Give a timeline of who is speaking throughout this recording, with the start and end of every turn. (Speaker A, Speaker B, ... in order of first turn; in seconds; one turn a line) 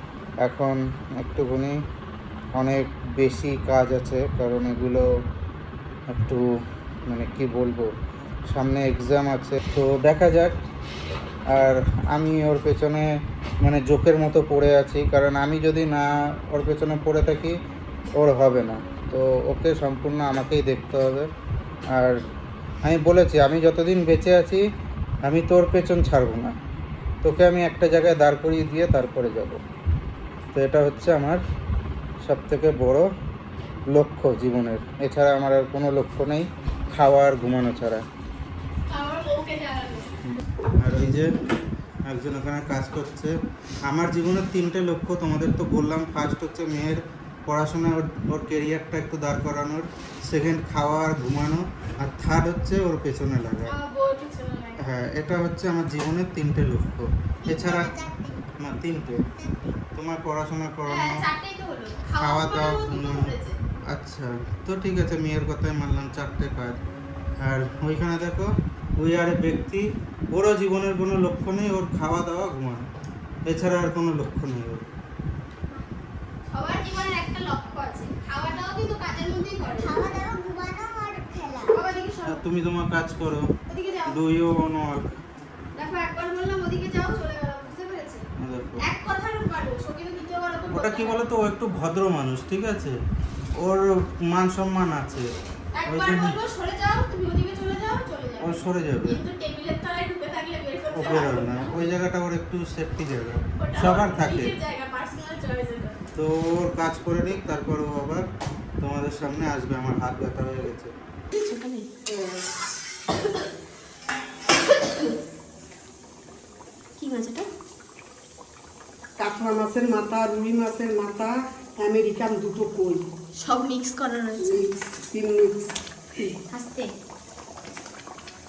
Speaker A: 0.4-1.8
Speaker A: 2.5-5.1
Speaker A: 6.1-6.4
Speaker A: 7.1-7.9
Speaker A: 8.5-10.6
Speaker A: 11.5-13.1
Speaker A: 13.6-17.6
Speaker A: 18.1-21.3
Speaker A: 21.9-22.2
Speaker A: 22.8-24.6
Speaker A: 25.2-26.5
Speaker A: 27.2-29.6
Speaker A: 30.5-31.4
Speaker A: 32.2-33.0
Speaker A: 33.9-38.0
Speaker B: 38.9-40.2
Speaker A: 40.2-41.3
Speaker A: 42.1-53.7
Speaker B: 53.7-54.9
Speaker A: 54.8-58.0
Speaker C: 57.5-58.4
Speaker A: 58.6-59.3
Speaker A: 59.9-61.2
Speaker B: 60.8-63.6
Speaker A: 62.2-63.4
Speaker A: 63.9-66.8
Speaker A: 67.4-72.9
Speaker A: 73.5-74.9
Speaker B: 76.5-80.3
Speaker C: 79.8-81.7
Speaker B: 81.6-82.4
Speaker A: 82.2-83.5
Speaker B: 83.7-84.2
Speaker A: 84.1-85.2
Speaker B: 85.8-88.2
Speaker A: 88.4-88.8
Speaker B: 88.8-91.2
Speaker A: 90.7-93.0
Speaker A: 93.5-95.3
Speaker B: 95.7-101.8
Speaker A: 95.8-96.4
Speaker A: 98.4-99.2
Speaker A: 100.9-104.5
Speaker B: 103.6-106.0
Speaker A: 106.1-108.3
Speaker A: 108.8-110.9
Speaker B: 111.3-111.9
Speaker D: 112.1-112.5
Speaker B: 117.0-117.5
Speaker D: 119.2-123.1
Speaker B: 123.4-124.6
Speaker D: 124.4-126.3
Speaker B: 126.5-126.9